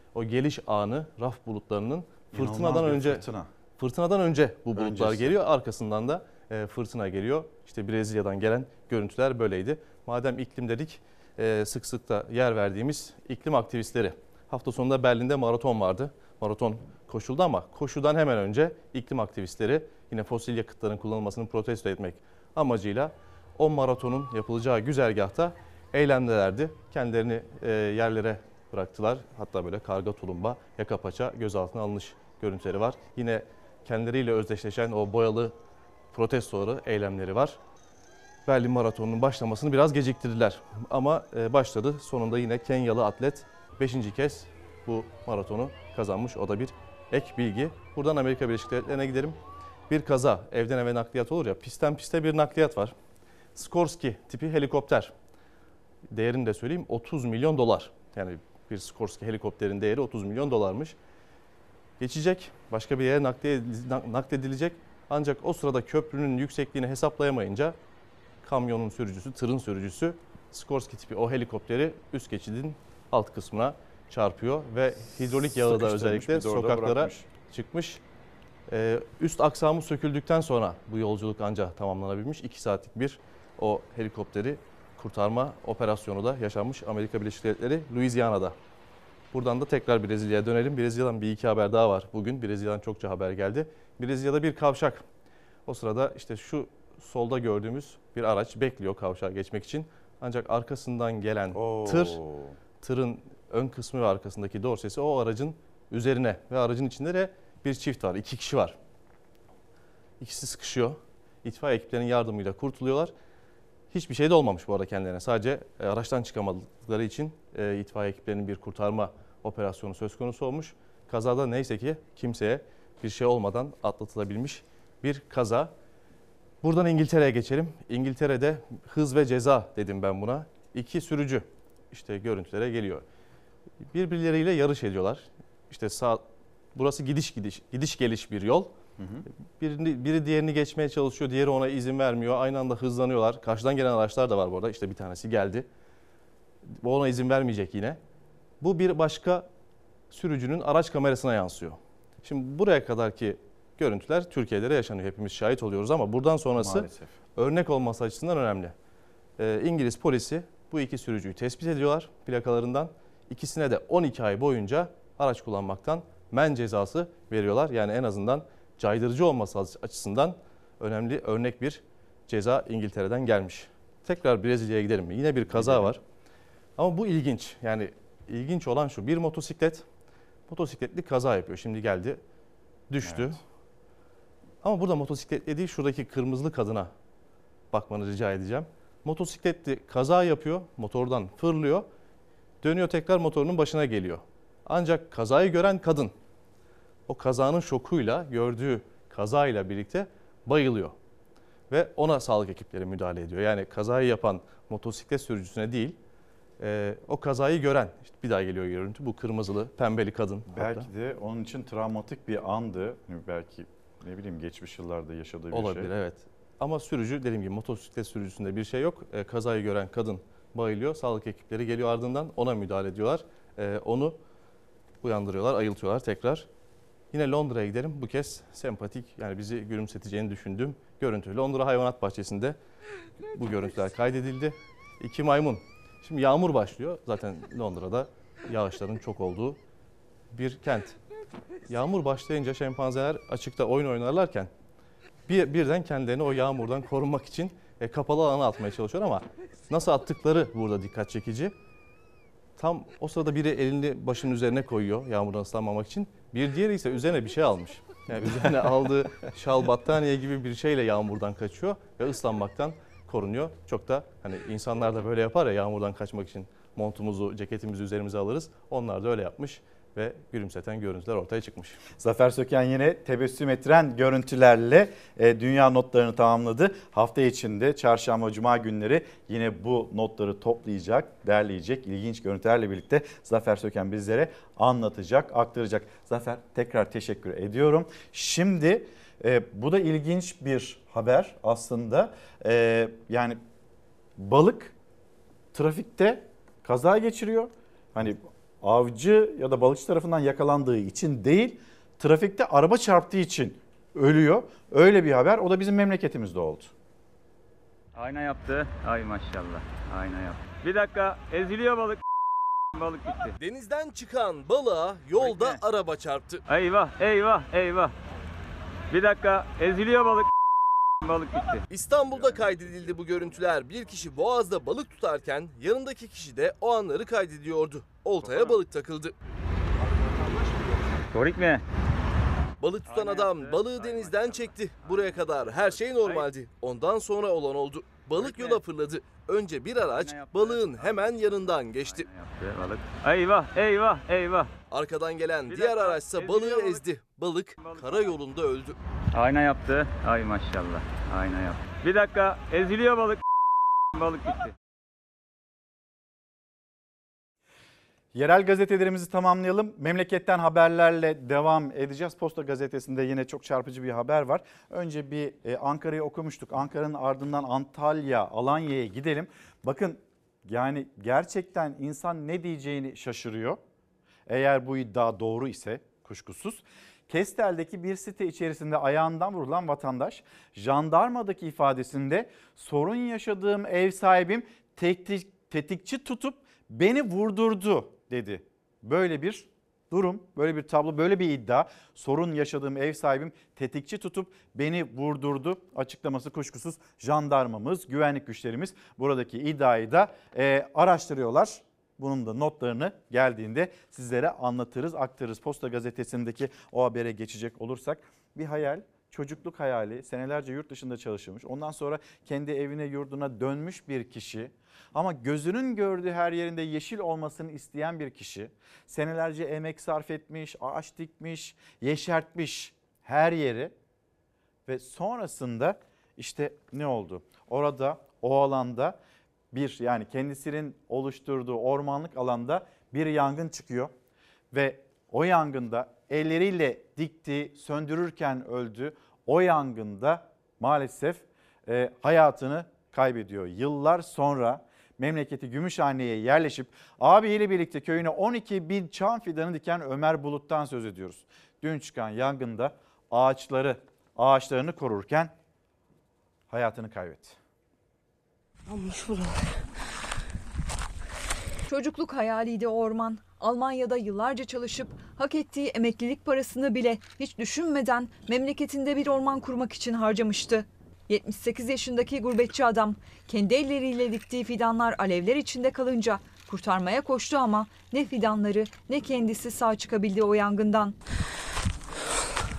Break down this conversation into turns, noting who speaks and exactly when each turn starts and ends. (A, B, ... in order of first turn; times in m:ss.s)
0:00.1-0:03.2 A
0:02.3-0:03.5 B
0:03.8-0:35.5 A
0:04.8-0:05.3 B
0:36.1-0:37.6 A
0:38.4-0:49.4 A
0:49.9-0:53.0 A
0:53.6-0:55.1 A
0:56.1-1:01.0 A
1:02.0-1:07.8 A
1:08.4-1:18.0 A
1:15.2-1:17.3 B
1:18.7-1:28.6 A
1:29.3-1:35.0 A
1:35.7-1:42.2 A
1:41.5-1:42.6 B
1:42.8-1:48.8 A
1:50.2-1:53.1 A
1:53.9-2:05.7 A
2:06.6-2:13.0 A
2:13.8-2:16.2 A
2:16.7-2:18.7 A
2:19.0-2:19.2 B
2:19.6-2:25.7 A
2:26.7-2:28.0 A
2:28.6-2:29.5 A
2:30.1-2:38.7 A
2:36.6-2:37.1 B
2:39.4-2:56.0 A
2:55.5-2:55.9 B
2:56.8-2:59.9 A
3:00.5-3:02.2 A
3:02.9-3:03.4 A
3:03.0-3:03.4 B
3:04.6-3:06.9 A
3:07.7-3:11.9 A
3:12.6-3:16.1 A
3:17.1-3:21.0 A
3:21.7-3:26.0 A
3:26.6-3:30.9 A
3:30.5-3:35.9 B
3:35.5-3:44.2 A
3:45.0-3:46.5 A
3:47.1-3:52.6 A
3:53.3-3:59.6 A
4:00.3-4:01.0 A
4:01.7-4:04.5 A
4:05.3-4:11.5 A
4:12.6-4:31.8 A
4:32.0-4:53.4 B
4:54.2-4:54.7 B
4:55.5-5:06.7 B
5:08.0-5:12.0 C
5:12.7-5:13.3 C
5:13.4-5:16.4 D
5:16.5-5:17.9 C
5:18.9-5:20.3 C
5:21.0-5:21.6 C
5:21.7-5:29.1 D
5:28.2-5:28.6 C
5:31.1-5:31.6 C
5:32.6-5:42.1 D
5:32.9-5:36.3 C
5:38.2-5:38.6 C
5:40.0-5:41.2 C
5:41.9-5:44.5 C
5:44.7-5:48.8 D
5:45.5-5:46.8 C
5:47.6-5:48.2 C
5:49.1-5:53.2 C
5:53.9-5:54.5 C
5:58.1-6:13.6 B
6:14.3-7:03.7 B
7:04.7-7:09.0 B
7:09.5-7:13.9 B
7:14.5-7:35.3 B
7:36.5-7:37.4 B
7:41.7-8:01.0 E